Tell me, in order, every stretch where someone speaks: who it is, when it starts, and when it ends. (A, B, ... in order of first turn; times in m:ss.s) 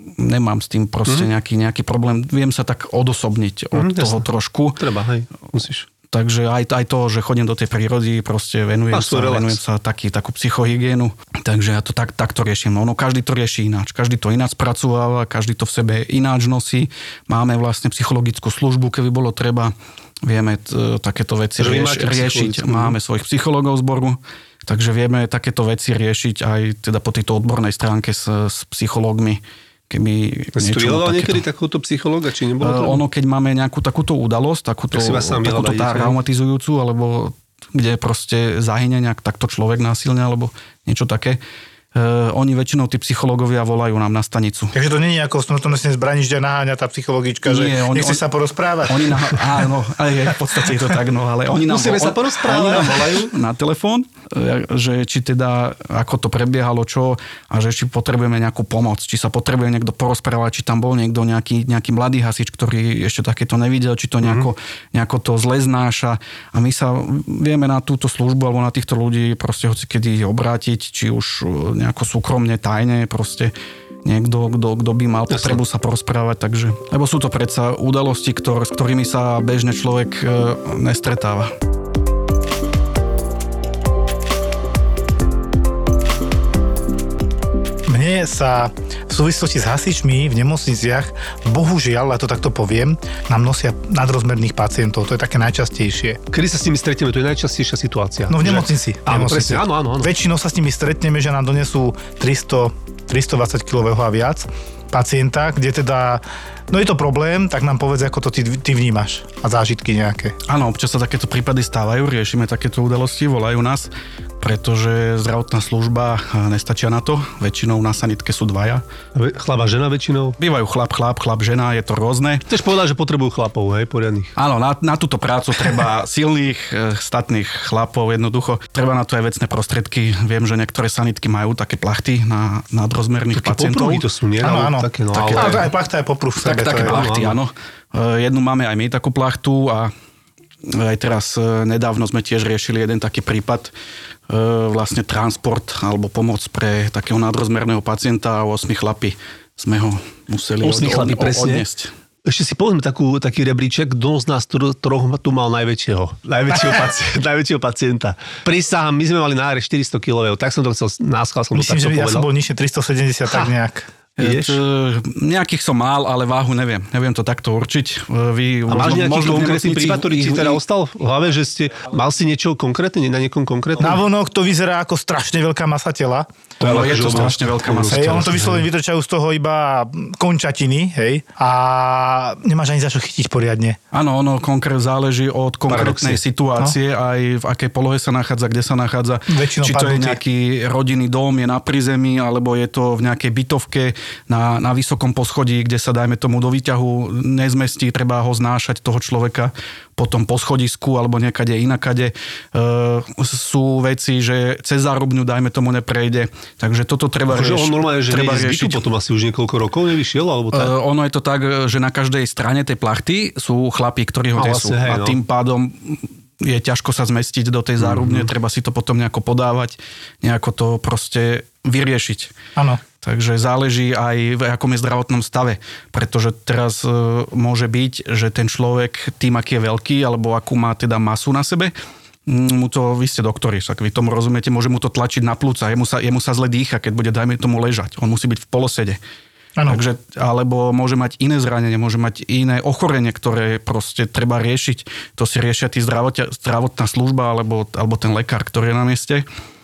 0:00.2-0:04.8 A
0:03.7-0:04.2 B
0:04.8-0:05.8 B
0:06.1-0:31.4 A
0:08.9-0:09.6 B
0:21.6-0:23.0 B
0:30.6-0:33.0 B
0:32.6-0:41.4 A
0:34.9-0:36.2 B
0:41.9-0:44.7 A
0:44.7-0:49.3 C
0:47.4-0:48.2 A
0:48.9-1:13.5 A
0:51.6-0:53.3 B
1:04.2-1:04.5 B
1:14.0-1:21.5 A
1:15.3-1:15.6 B
1:27.9-1:36.2 C
1:36.3-1:40.1 B
1:38.3-1:50.3 C
1:50.4-1:58.8 A
1:59.1-2:00.4 B
2:00.4-2:02.5 A
2:02.5-2:04.3 B
2:04.4-2:14.0 A
2:13.3-2:15.7 B
2:14.4-2:17.0 C
2:15.1-2:15.6 A
2:16.4-2:19.9 A
2:16.4-2:17.4 B
2:20.6-2:23.7 A
2:24.3-2:31.9 A
2:30.6-2:31.6 B
2:32.2-2:42.3 B
2:41.5-2:43.9 C
2:44.2-2:50.6 A
2:44.2-2:44.6 B
2:48.7-2:54.0 B
2:53.8-2:57.2 C
2:56.6-2:58.6 A
2:56.6-2:58.6 B
2:57.9-3:03.8 C
3:03.9-3:28.8 A
3:05.7-3:06.2 B
3:09.3-3:10.2 C
3:27.3-3:30.7 B
3:30.5-3:42.3 A
3:34.4-3:35.2 B
3:37.8-3:38.3 B
3:42.6-3:42.8 C
3:43.0-3:51.7 A
3:52.3-3:59.0 A
3:59.6-3:59.8 C
3:59.7-4:09.2 A